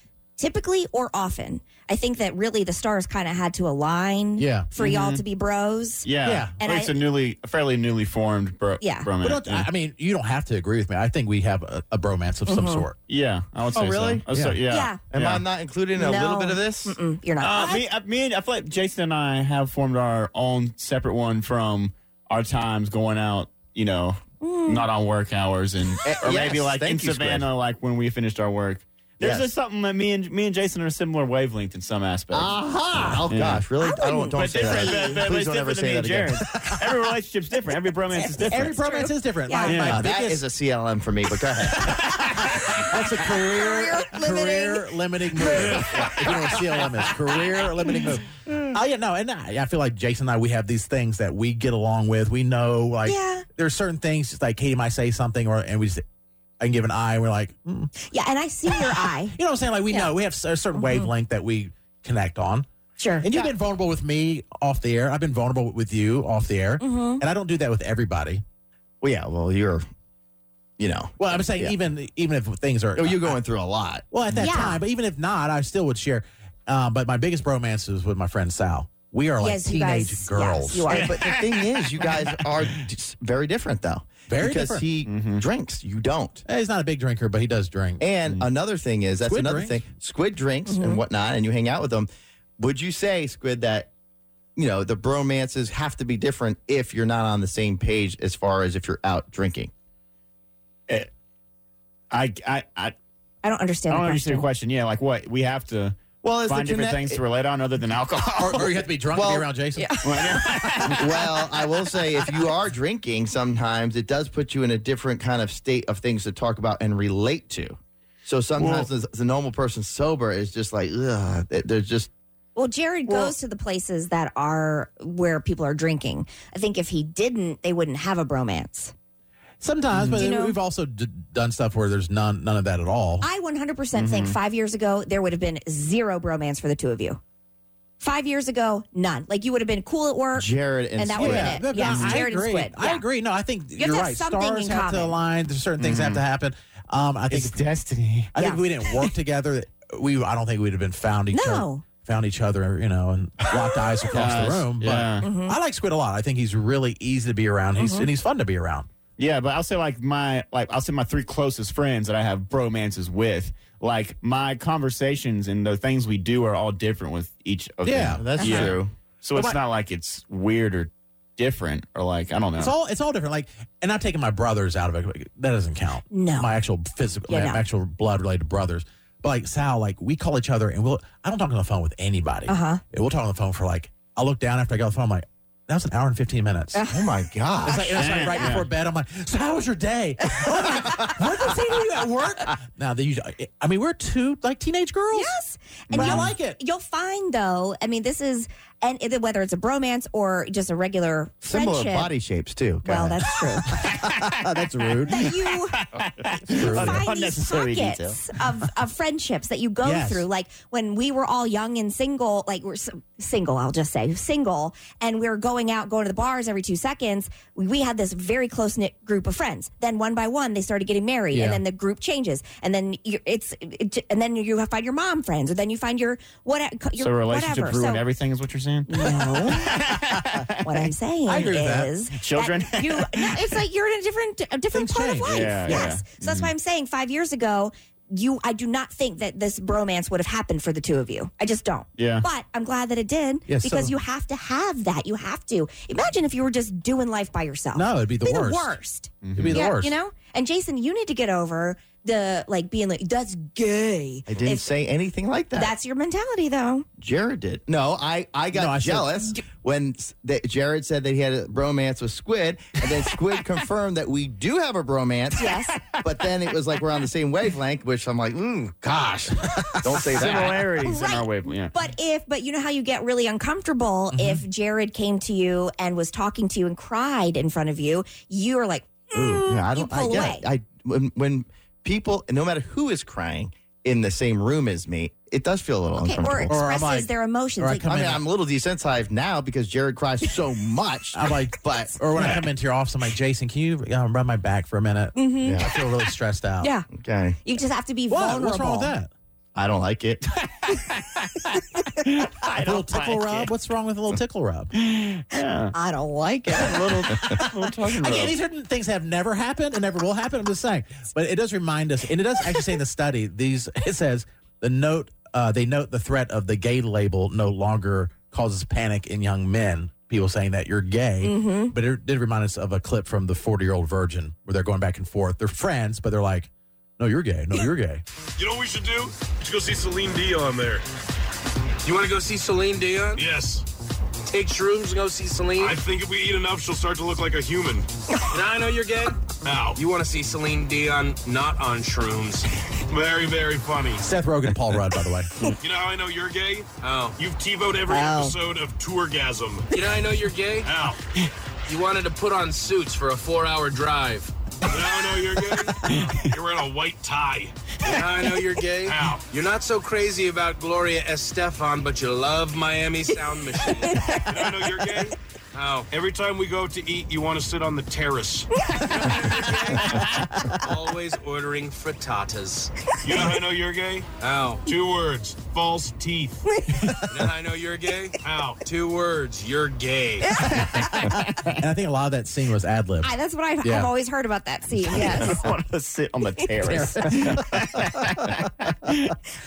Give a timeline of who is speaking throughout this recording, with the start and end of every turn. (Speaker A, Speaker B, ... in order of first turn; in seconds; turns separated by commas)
Speaker A: 0.4-7.0, Speaker B: 4.4-4.7, Speaker C: 4.8-5.2, Speaker C: 6.0-9.7, Speaker B: 6.2-6.5, Speaker A: 8.8-9.1, Speaker B: 9.2-13.0, Speaker A: 12.5-12.9, Speaker C: 13.1-15.4, Speaker D: 13.7-14.2, Speaker B: 14.3-14.6, Speaker A: 14.7-15.0, Speaker D: 15.1-16.9, Speaker A: 15.9-17.9, Speaker C: 17.4-32.5, Speaker A: 24.4-24.9, Speaker D: 26.0-27.5, Speaker D: 29.2-29.5, Speaker D: 32.3-36.4, Speaker C: 33.3-33.6, Speaker A: 33.8-35.3, Speaker C: 34.3-38.8, Speaker A: 38.1-40.0, Speaker B: 38.5-40.4, Speaker C: 39.7-40.0, Speaker D: 39.9-42.0, Speaker B: 41.9-56.0, Speaker A: 42.7-46.4, Speaker A: 53.1-53.5, Speaker B: 56.6-57.9, Speaker A: 58.1-59.4, Speaker B: 59.3-62.7, Speaker A: 60.8-61.1, Speaker A: 63.0-63.3, Speaker B: 63.2-68.4, Speaker A: 66.8-67.2, Speaker D: 69.0-69.9, Speaker D: 70.8-71.8, Speaker B: 71.2-73.4, Speaker D: 73.0-74.1, Speaker B: 74.1-81.0, Speaker A: 74.4-74.8, Speaker A: 79.4-81.2, Speaker D: 80.9-86.4, Speaker C: 81.2-82.0, Speaker B: 84.3-84.9, Speaker C: 85.1-85.5, Speaker B: 86.5-88.0, Speaker D: 88.0-92.1, Speaker B: 89.3-89.8, Speaker A: 90.7-91.0, Speaker D: 92.6-93.9, Speaker D: 94.6-99.7, Speaker C: 102.1-102.9, Speaker A: 103.4-104.5, Speaker C: 103.9-108.8, Speaker D: 106.2-107.2, Speaker B: 108.4-110.0, Speaker D: 109.1-109.5, Speaker A: 109.8-110.7, Speaker C: 110.0-111.4, Speaker D: 110.8-122.1, Speaker C: 118.6-118.9, Speaker A: 122.6-128.9, Speaker B: 129.6-133.3, Speaker A: 130.2-130.6, Speaker A: 133.2-137.2, Speaker C: 133.9-134.4, Speaker A: 138.0-143.1, Speaker D: 140.3-141.6, Speaker B: 141.2-147.6, Speaker C: 141.8-142.2, Speaker A: 143.8-145.2, Speaker C: 145.8-146.2, Speaker C: 147.3-148.3, Speaker B: 148.3-158.9, Speaker A: 148.4-149.1, Speaker A: 151.3-151.8, Speaker A: 153.8-154.2, Speaker C: 154.1-155.3, Speaker A: 155.2-155.6, Speaker A: 157.8-158.1, Speaker C: 159.2-172.7, Speaker B: 167.8-168.8, Speaker D: 168.2-168.9, Speaker A: 168.4-168.7, Speaker B: 169.3-169.6, Speaker B: 172.6-186.8, Speaker A: 176.1-176.5, Speaker A: 177.3-177.6, Speaker A: 182.5-182.8, Speaker A: 186.7-187.1, Speaker D: 186.9-188.0, Speaker B: 187.6-195.3, Speaker C: 188.0-188.7, Speaker A: 188.2-188.6, Speaker A: 190.3-191.1, Speaker A: 195.1-202.1, Speaker D: 195.9-196.3, Speaker B: 195.9-196.6, Speaker D: 201.4-203.2, Speaker A: 202.8-203.9, Speaker C: 203.8-204.4, Speaker B: 203.9-205.3, Speaker A: 205.1-205.8, Speaker C: 205.1-208.2, Speaker A: 206.5-228.0, Speaker B: 206.5-207.1, Speaker B: 209.8-210.3, Speaker B: 221.3-221.6, Speaker C: 227.0-230.7, Speaker A: 228.9-229.9, Speaker A: 230.6-254.7, Speaker B: 231.3-231.9, Speaker C: 232.2-233.6, Speaker B: 234.7-235.9, Speaker C: 235.2-236.5, Speaker C: 242.0-242.2, Speaker B: 243.5-243.9, Speaker B: 247.8-248.8, Speaker C: 249.2-249.6, Speaker B: 249.4-249.9, Speaker D: 254.3-255.7, Speaker A: 255.6-256.9, Speaker D: 257.0-270.7, Speaker B: 258.5-259.1, Speaker A: 265.4-265.9, Speaker B: 269.5-270.4, Speaker C: 269.9-271.7, Speaker A: 270.8-280.4, Speaker B: 274.1-274.4, Speaker D: 279.1-286.6, Speaker A: 285.9-287.9, Speaker B: 286.5-288.2, Speaker D: 287.9-292.4, Speaker B: 291.1-296.7, Speaker A: 295.2-296.0, Speaker D: 295.4-295.7, Speaker A: 296.6-296.9, Speaker D: 296.9-297.4, Speaker A: 297.4-298.9, Speaker B: 298.1-299.1, Speaker D: 299.6-300.3, Speaker C: 300.6-303.5, Speaker B: 302.6-304.7, Speaker C: 304.8-305.7, Speaker A: 305.7-306.8, Speaker C: 306.5-308.4, Speaker B: 307.1-328.0, Speaker A: 321.2-321.7, Speaker E: 328.4-330.9, Speaker F: 331.8-333.3, Speaker E: 333.1-333.6, Speaker F: 334.3-335.8, Speaker E: 335.6-337.9, Speaker F: 338.3-342.5, Speaker E: 339.4-339.8, Speaker E: 342.9-344.0, Speaker B: 344.0-345.4, Speaker E: 345.6-349.7, Speaker F: 346.8-347.2, Speaker A: 347.9-348.4, Speaker F: 349.7-350.7, Speaker E: 350.6-351.0, Speaker F: 351.7-354.3, Speaker E: 354.7-357.5, Speaker F: 355.1-356.2, Speaker C: 355.9-356.3, Speaker F: 357.8-364.0, Speaker E: 358.8-359.2, Speaker A: 363.8-364.7, Speaker E: 364.3-365.1, Speaker F: 364.8-365.9, Speaker E: 365.9-368.5, Speaker F: 367.8-368.2, Speaker A: 368.6-369.5, Speaker F: 368.8-372.9, Speaker E: 373.0-374.1, Speaker F: 374.2-374.7, Speaker E: 374.7-376.4, Speaker A: 376.5-377.0, Speaker F: 377.1-380.4, Speaker E: 378.2-378.6, Speaker A: 380.3-380.8, Speaker B: 380.4-383.9, Speaker A: 383.0-385.5, Speaker C: 384.8-389.2, Speaker A: 386.4-386.9, Speaker B: 386.6-387.6